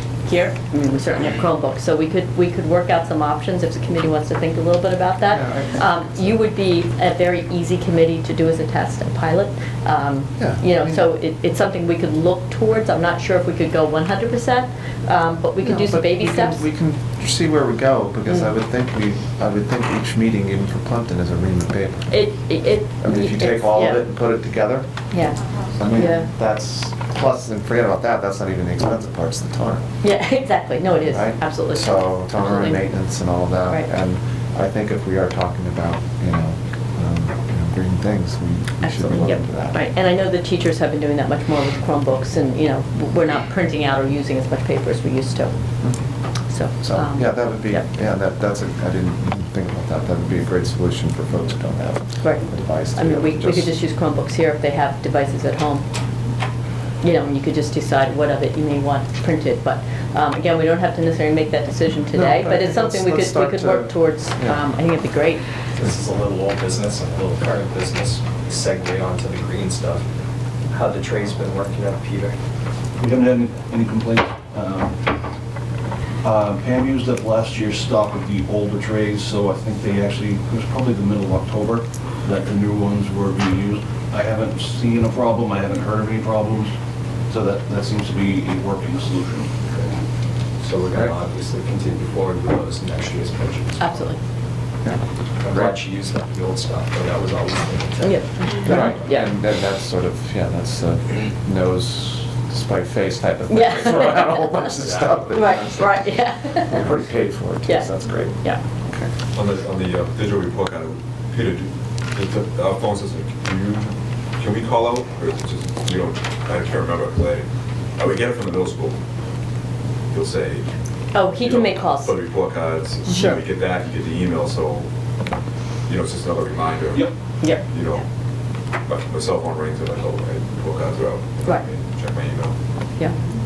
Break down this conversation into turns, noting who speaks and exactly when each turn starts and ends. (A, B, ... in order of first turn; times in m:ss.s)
0:00.2-0:16.6 A
0:05.2-0:06.3 B
0:10.4-0:11.1 B
0:15.6-0:22.1 B
0:22.1-0:24.0 A
0:23.0-0:24.9 B
0:25.1-0:25.4 A
0:25.8-0:29.8 B
0:25.9-0:26.3 A
0:30.0-0:32.8 A
0:31.1-0:39.8 B
0:38.8-0:45.5 A
0:45.8-0:46.0 B
0:46.5-0:47.8 A
0:46.8-0:53.7 B
0:52.2-0:55.8 A
0:57.0-1:05.5 A
1:02.1-1:04.6 B
1:05.8-1:10.1 C
1:10.7-1:12.4 C
1:13.0-1:15.1 D
1:16.2-1:26.7 D
1:27.3-1:29.6 D
1:30.6-1:34.1 C
1:33.8-1:34.2 A
1:34.8-1:35.8 B
1:35.4-1:39.0 C
1:38.0-1:39.3 A
1:38.6-1:48.4 B
1:43.5-1:44.7 A
1:44.7-1:45.4 C
1:45.3-1:46.9 A
1:47.6-1:48.6 A
1:49.3-1:57.4 E
1:58.0-1:59.0 E
2:00.1-2:00.6 E
2:01.1-2:02.2 A
2:01.3-2:04.9 E
2:03.1-2:03.4 A
2:05.9-2:08.0 E
2:07.4-2:07.7 A
2:08.8-2:12.5 E